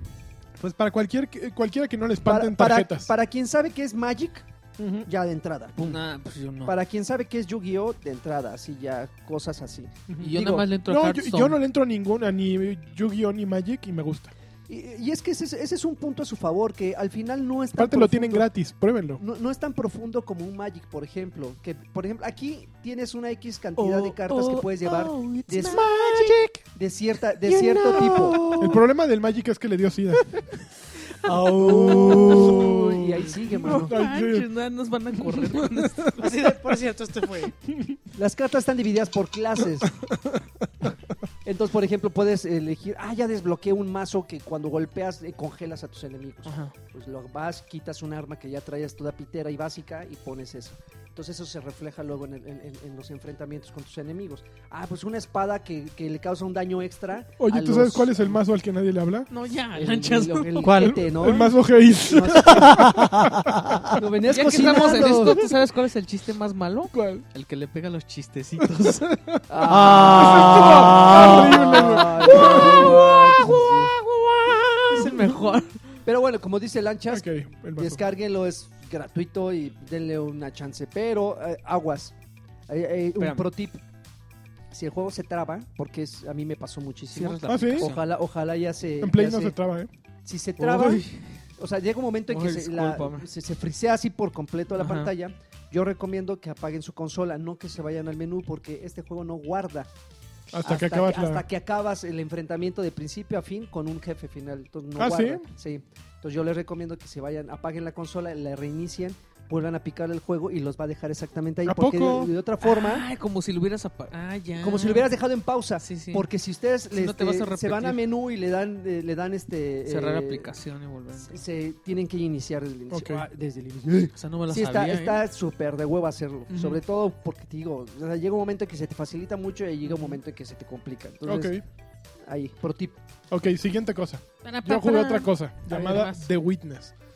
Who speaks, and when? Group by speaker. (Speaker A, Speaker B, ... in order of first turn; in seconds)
Speaker A: 0.6-3.1, 4.8-5.1, 10.1-10.3, 10.9-14.3, 17.8-19.2, 28.6-30.2, 31.7-34.5, 35.2-36.1, 37.7-38.0, 39.9-40.4, 57.4-59.3, 60.8-63.9, 66.9-67.2, 68.6-69.4, 70.1-73.1, 77.1-78.0, 87.5-87.9, 89.0-89.9, 100.5-101.4, 105.0-105.5, 111.7-112.3, 122.9-123.2, 126.5-126.8, 131.2-131.6, 133.3-136.9
Speaker B: 2.2-4.5, 5.0-6.0, 6.6-10.7, 14.7-18.5, 19.2-26.1, 26.7-28.4, 31.6-33.9, 38.1-39.9, 41.5-58.4, 59.7-62.9, 64.0-65.5, 69.5-73.9, 74.9-82.1, 82.7-83.8, 84.7-89.5, 90.2-91.0, 91.6-99.9, 100.6-113.1, 114.6-120.5, 121.2-131.5, 132.2-133.0
Speaker C: 5.8-6.7, 10.2-11.6, 23.8-26.4, 27.6-28.6, 31.2-32.0, 33.7-36.3, 46.5-46.7, 59.3-60.8, 64.3-69.1, 72.2-76.0, 83.2-83.5, 87.1-88.0, 90.6-91.4, 92.3-93.3, 94.7-95.1, 112.6-115.1, 115.8-116.3, 116.9-118.0, 119.9-121.4, 124.2-125.2, 134.4-136.3
Speaker D: 25.6-26.6, 27.5-28.8, 31.2-32.9, 36.1-37.5, 60.6-61.0, 62.5-63.9, 69.6-72.0